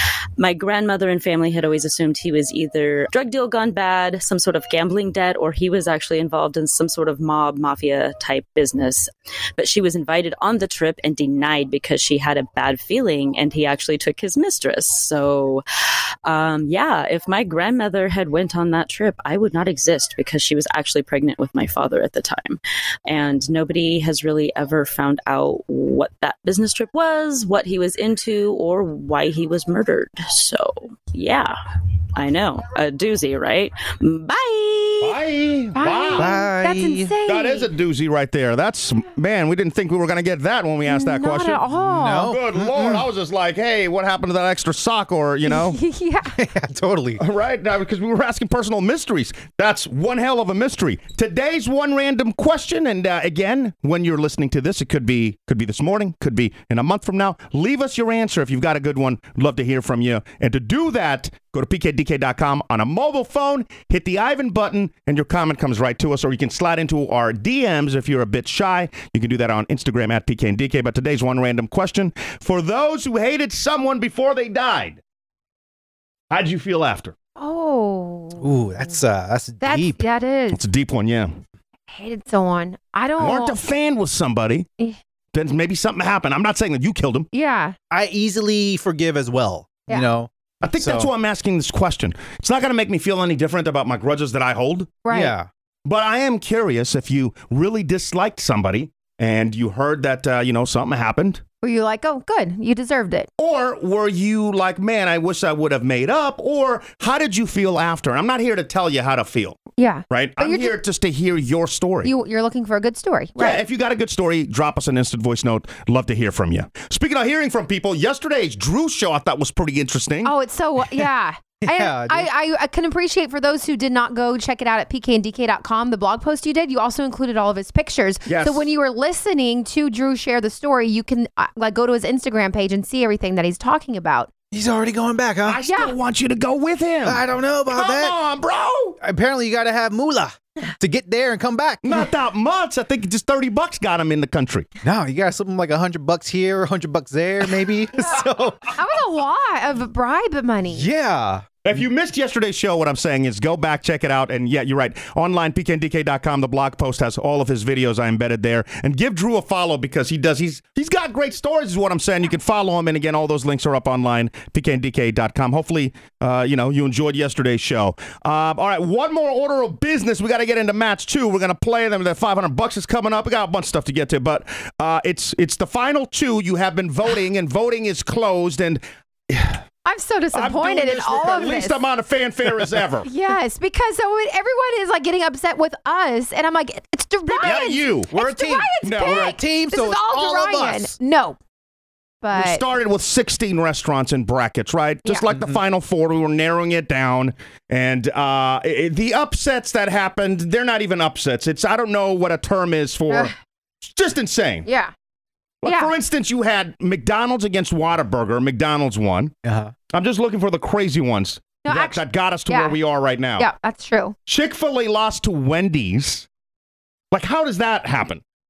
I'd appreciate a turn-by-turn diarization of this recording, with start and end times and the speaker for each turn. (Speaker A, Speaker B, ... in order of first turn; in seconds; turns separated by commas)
Speaker A: 0.4-15.6, Speaker A: 16.2-31.5, Speaker A: 32.1-35.1, Speaker B: 35.0-36.4, Speaker C: 35.8-37.7, Speaker D: 36.1-37.1, Speaker B: 37.2-41.6, Speaker C: 40.9-42.3, Speaker D: 41.7-43.0, Speaker B: 42.2-45.8, Speaker C: 45.5-46.4, Speaker D: 46.3-47.2, Speaker B: 47.2-75.0, Speaker B: 76.3-77.1, Speaker C: 77.4-78.9, Speaker D: 78.4-80.0, Speaker C: 79.6-80.6, Speaker B: 80.5-81.4, Speaker C: 81.9-83.5, Speaker B: 83.2-84.7, Speaker B: 85.3-87.3, Speaker C: 87.3-87.8, Speaker D: 87.9-91.1, Speaker B: 90.6-95.0, Speaker C: 95.0-95.3, Speaker D: 95.1-95.5, Speaker B: 95.8-101.4, Speaker C: 101.6-103.3, Speaker B: 103.4-112.1, Speaker C: 109.8-110.8, Speaker C: 112.0-113.6, Speaker B: 113.4-120.3, Speaker C: 120.2-134.3, Speaker D: 121.6-122.3, Speaker B: 128.2-128.6, Speaker D: 134.5-135.6, Speaker B: 135.4-139.0, Speaker C: 135.7-135.9, Speaker D: 137.0-138.2, Speaker D: 139.0-142.1, Speaker B: 141.8-144.7, Speaker D: 144.8-148.7, Speaker C: 148.8-150.9, Speaker D: 150.7-151.4, Speaker B: 151.6-179.6, Speaker C: 179.8-181.8, Speaker B: 180.3-183.1, Speaker C: 183.0-191.4, Speaker B: 187.3-188.1, Speaker D: 187.4-190.9, Speaker B: 188.8-189.3, Speaker C: 192.2-192.6, Speaker B: 192.3-204.7, Speaker C: 204.7-204.9, Speaker B: 205.6-209.3, Speaker C: 205.6-205.9, Speaker D: 209.4-209.7, Speaker B: 209.9-213.4, Speaker C: 211.6-212.8, Speaker C: 213.4-214.1, Speaker B: 214.2-216.3, Speaker B: 217.1-218.2